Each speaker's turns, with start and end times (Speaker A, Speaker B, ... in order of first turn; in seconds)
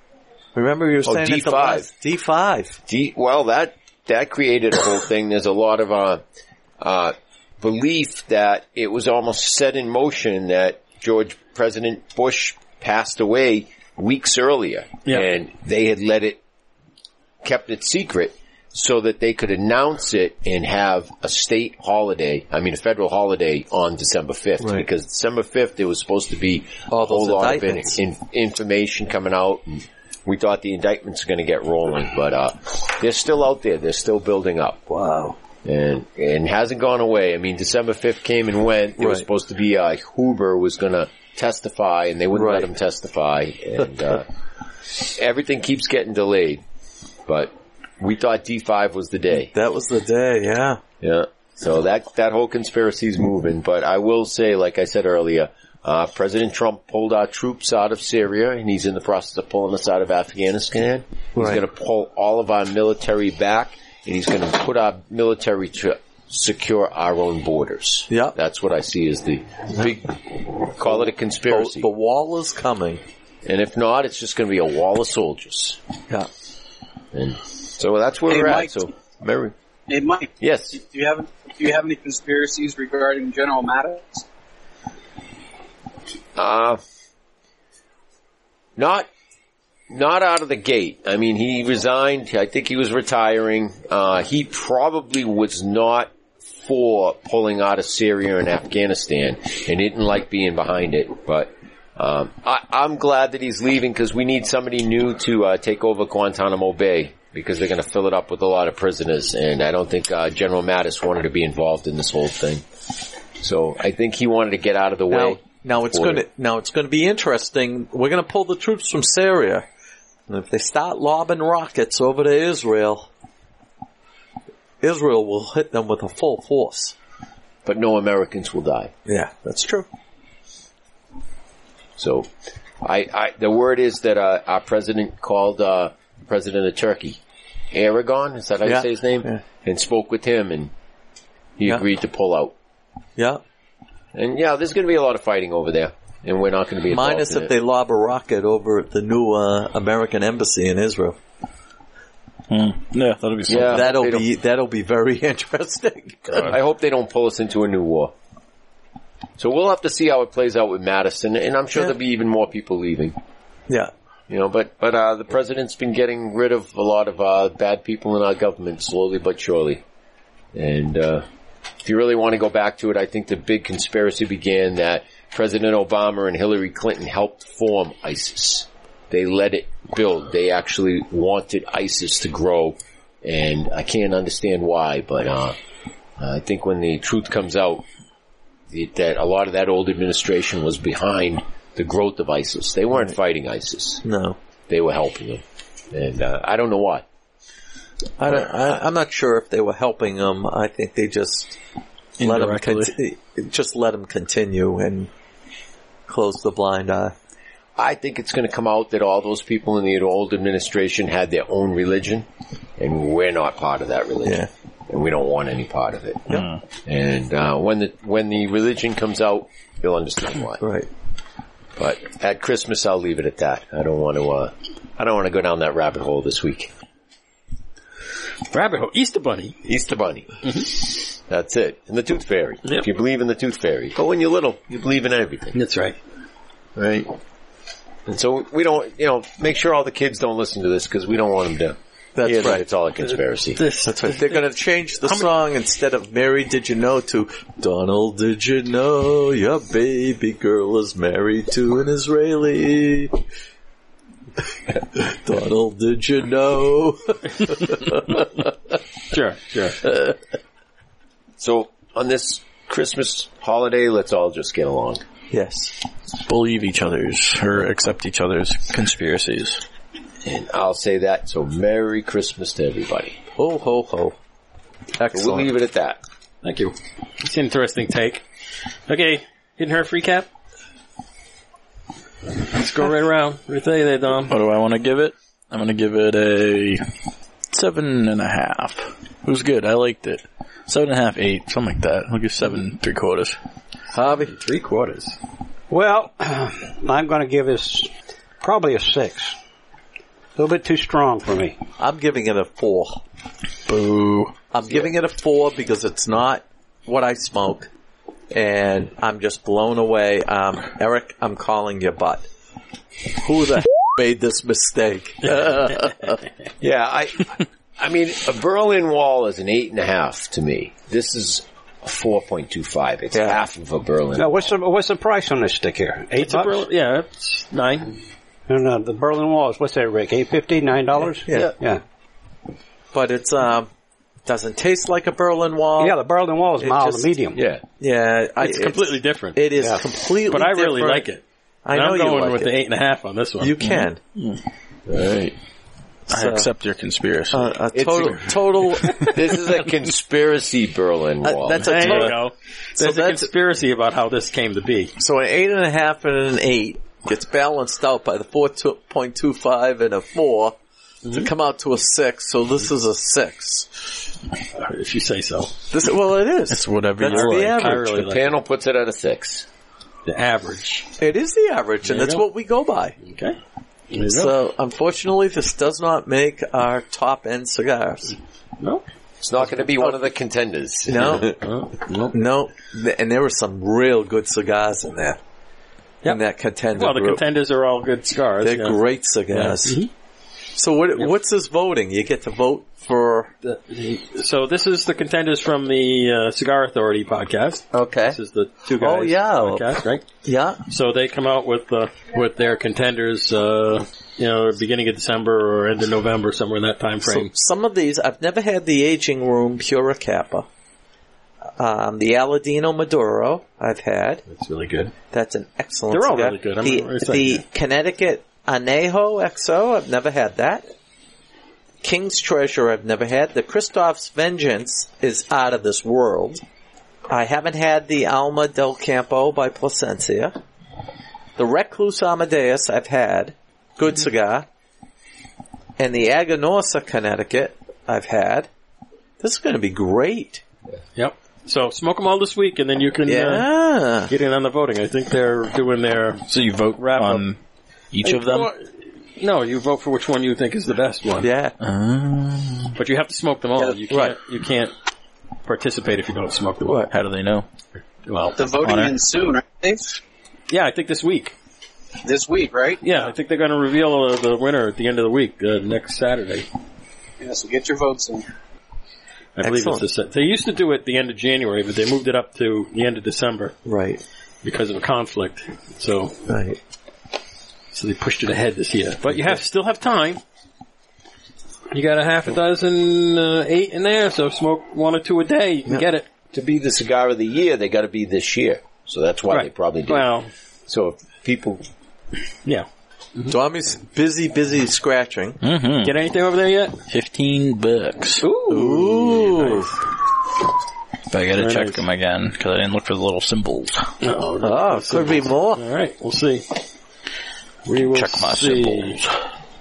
Speaker A: 0.5-2.8, 24.6-24.9, 26.9-28.0, 34.9-35.4, 39.0-39.2, 42.3-42.7, 49.3-50.8, 61.4-61.6, 68.1-68.4, 70.8-73.0, 115.1-119.7, 120.3-123.1, 124.8-126.9, 129.1-129.9, 138.6-139.4, 143.2-143.4, 146.9-151.2, 153.7-156.5, 194.0-194.4, 198.2-201.6, 202.2-205.1, 206.1-207.1, 214.2-214.5, 220.6-220.9, 242.2-242.6, 243.8-253.2, 254.9-258.3, 259.8-260.1, 265.3-265.7, 273.4-274.1, 275.0-275.5, 293.9-294.3, 301.8-303.0, 304.5-307.7, 308.3-312.2, 313.2-316.2, 323.1-323.4, 331.2-331.5, 332.9-333.7, 334.2-336.0, 336.6-337.1, 337.8-341.1, 341.6-342.6, 343.4-344.0, 346.1-346.5, 347.3-349.1, 351.2-352.2, 352.8-353.3, 355.0-360.6, 361.1-363.8, 365.7-368.0, 371.0-372.9, 374.0-378.1, 380.9-381.3, 382.1-385.2, 386.0-387.2, 388.4-389.8, 390.5-393.3, 397.7-398.2, 398.8-399.7, 400.2-400.6, 407.0-410.4, 411.6-414.2, 415.1-420.7, 421.8-426.4, 427.1-430.4, 431.4-434.5, 435.8-438.5, 439.2-440.4, 443.0-444.1, 451.2-451.6, 453.6-454.2, 456.6-456.9, 469.4-469.8, 473.6-474.0, 476.3-476.6, 479.0-479.4, 493.3-495.4, 498.5-499.7, 504.4-505.6
Speaker B: 1.1-1.9, 2.9-6.2, 6.8-16.4, 17.4-34.8, 35.6-44.2, 45.0-46.6, 47.3-49.5, 51.0-71.9, 73.5-75.8, 77.1-79.5, 80.4-80.8, 86.3-86.8, 88.8-89.1, 89.9-112.6, 113.4-116.2, 127.6-128.9, 132.0-132.3, 132.8-137.2, 137.7-140.7, 141.6-142.5, 144.1-147.5, 153.5-154.2, 156.3-158.1, 159.4-163.1, 164.3-169.8, 170.5-171.2, 171.8-185.6, 186.2-187.8, 188.7-194.0, 194.7-197.0, 207.8-212.2, 212.8-216.3, 216.8-220.6, 221.8-226.7, 229.6-230.3, 231.3-235.6, 236.8-237.1, 238.1-243.6, 261.4-265.0, 270.2-273.2, 275.1-276.0, 316.6-324.5, 337.3-337.6, 344.9-345.3, 347.7-348.3, 348.9-351.9, 367.9-369.4, 379.2-381.4, 486.3-490.1, 490.7-491.6
Speaker C: 78.3-78.8, 79.9-84.2, 458.4-460.0, 462.0-462.8, 467.2-468.2
Speaker D: 152.5-154.1, 202.2-202.9, 216.3-216.6, 266.2-269.6, 284.3-286.8, 287.5-293.4, 303.7-304.3, 343.6-344.4, 344.9-345.3, 346.1-347.5, 366.5-367.8, 446.3-447.4, 447.9-448.5, 451.6-452.7, 456.9-457.4, 458.5-459.0, 495.4-495.9, 496.9-499.2, 501.1-503.9, 507.8-509.1
Speaker E: 228.5-229.6, 230.4-230.7, 235.5-236.0, 243.6-244.5, 259.1-259.8, 276.4-278.2, 278.9-280.3, 282.5-284.3, 294.2-295.2, 326.2-327.9, 338.4-339.4, 340.3-343.5, 348.8-349.1, 351.6-354.9, 361.0-361.3, 364.6-365.5, 367.0-368.3, 370.1-370.9, 371.8-372.2, 373.0-373.4, 373.9-374.3, 378.6-378.8, 381.4-382.1, 386.7-389.9, 393.4-400.0, 400.7-407.3, 414.3-414.9, 415.9-417.4, 440.9-443.5, 444.1-446.2, 446.8-447.2, 448.0-451.3, 452.8-454.7, 455.4-456.8, 458.1-458.5, 460.5-461.3, 462.8-466.4, 469.4-473.5, 474.4-476.1, 477.7-480.2, 481.7-486.1, 489.3-490.3, 492.4-493.4, 495.8-496.8, 498.2-499.7, 501.4-501.8, 504.0-506.4, 507.6-509.0
Speaker F: 295.7-299.3, 300.4-301.6, 324.1-326.6, 328.5-331.8, 335.8-337.4